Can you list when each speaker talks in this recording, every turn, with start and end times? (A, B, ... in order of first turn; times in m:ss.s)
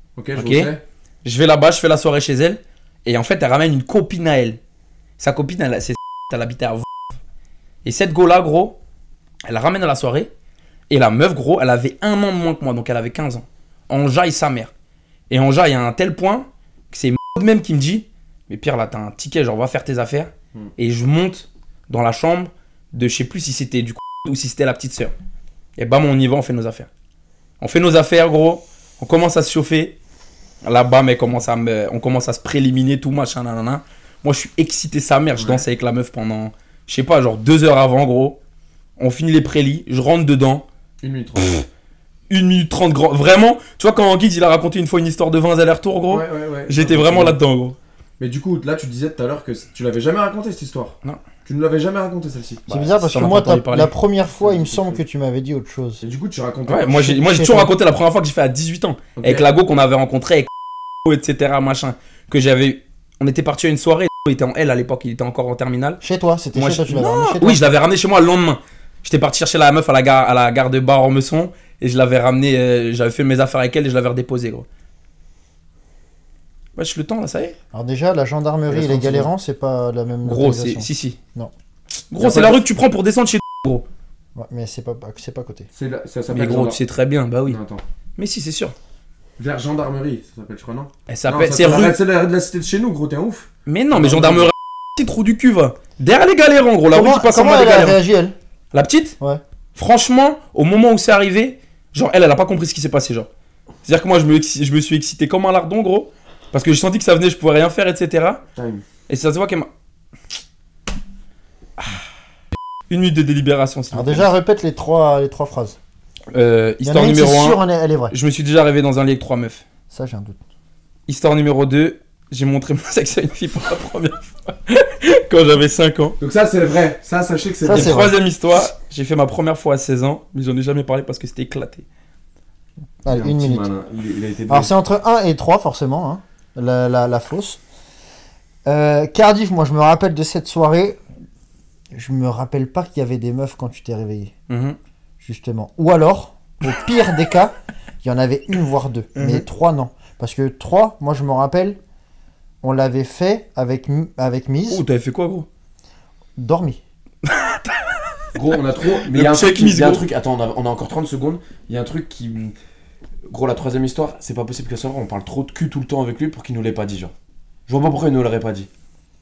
0:00.2-0:00.8 A
0:00.3-0:04.6 B
0:05.2-0:06.8 B
0:07.8-0:08.8 B
0:09.4-0:10.3 B
0:10.9-0:14.7 B
0:15.3-0:25.1 B
0:25.8-0:26.9 B
0:27.6-0:30.0 B
0:30.6-0:38.4 B
0:35.4-0:35.6 A
0:39.0-0:40.6 B
0:41.0-0:41.6 A
0:42.3-0:47.8 B
0:46.1-0:47.4 A
0:48.2-0:52.7 A
0:52.7-0:56.0 C
0:52.7-0:54.0 B
0:54.4-0:55.0 A
0:56.0-0:56.9 A
0:56.7-1:00.5 B
0:56.8-0:57.7 C
0:59.2-0:59.4 A
1:01.0-1:06.0 B
1:06.0-1:07.7 C
1:06.5-1:14.6 B
1:16.8-1:17.6 B
1:17.7-1:21.5 C
1:18.7-1:19.3 A
1:20.2-1:21.2 B
1:22.1-1:23.8 B
1:22.2-1:22.6 A
1:24.3-1:25.7 C
1:25.7-1:26.8 A
1:26.3-1:27.6 B
1:27.4-1:27.8 A
1:28.2-1:28.7 B
1:29.4-1:34.5 A
1:31.1-1:32.0 B
1:33.6-1:38.0 B
1:36.9-1:38.3 C
1:38.7-1:39.2 B
1:39.7-1:43.3 B
1:43.8-1:48.4 B
1:48.5-1:48.8 A
1:49.1-1:49.7 B
1:52.9-1:54.3 B
1:53.9-1:55.8 C
1:56.3-1:59.6 B
1:56.8-1:58.1 C
1:59.9-2:00.4 C
2:01.1-2:06.2 B
2:06.2-2:08.0 A
2:07.6-2:08.2 C
2:07.7-2:11.8 B
2:13.0-2:13.7 C
2:13.1-2:14.7 A
2:14.5-2:17.6 C
2:18.6-2:21.0 C
2:21.9-2:24.3 C
2:24.5-2:24.8 B
2:25.2-2:31.8 C
2:29.2-2:29.4 B
2:32.6-2:34.8 C
2:34.7-2:35.5 B
2:36.4-2:36.8 C
2:37.2-2:37.9 B
2:38.3-2:42.5 A
2:38.8-2:40.1 B
2:43.3-2:47.1 A
2:47.7-2:48.7 A